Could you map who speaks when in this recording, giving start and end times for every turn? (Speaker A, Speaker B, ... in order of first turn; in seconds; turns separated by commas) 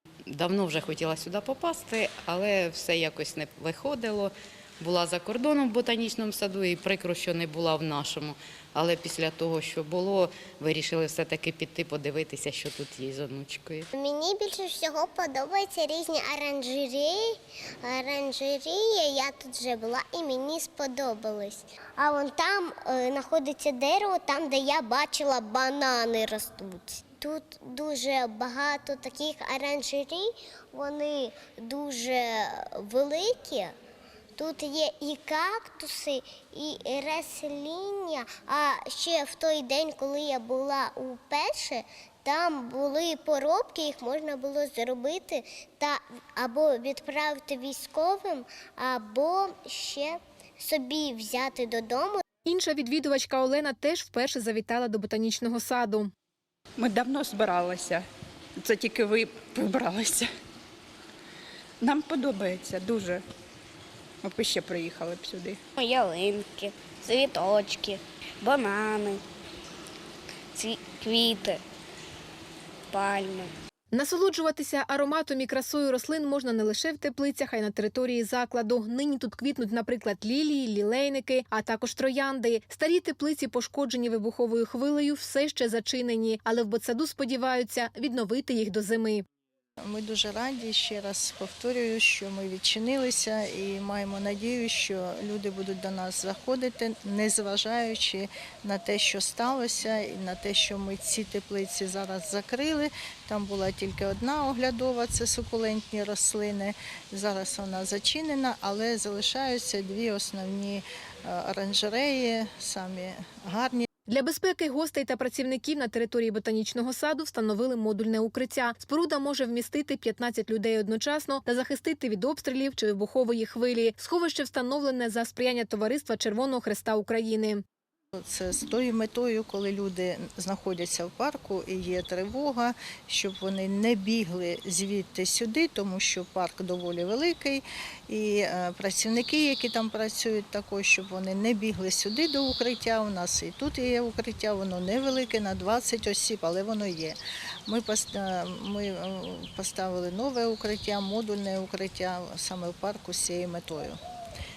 Speaker A: 0.3-13.9, Speaker B: 13.9-17.3, Speaker B: 17.8-33.7, Speaker B: 34.4-52.2, Speaker C: 52.4-56.1, Speaker D: 56.8-58.0, Speaker D: 58.6-60.3, Speaker D: 61.8-63.2, Speaker D: 64.2-65.6, Speaker E: 65.8-69.2, Speaker E: 70.5-71.6, Speaker E: 72.9-73.5, Speaker C: 73.9-89.2, Speaker F: 89.8-113.9, Speaker C: 114.1-127.6, Speaker F: 128.2-154.0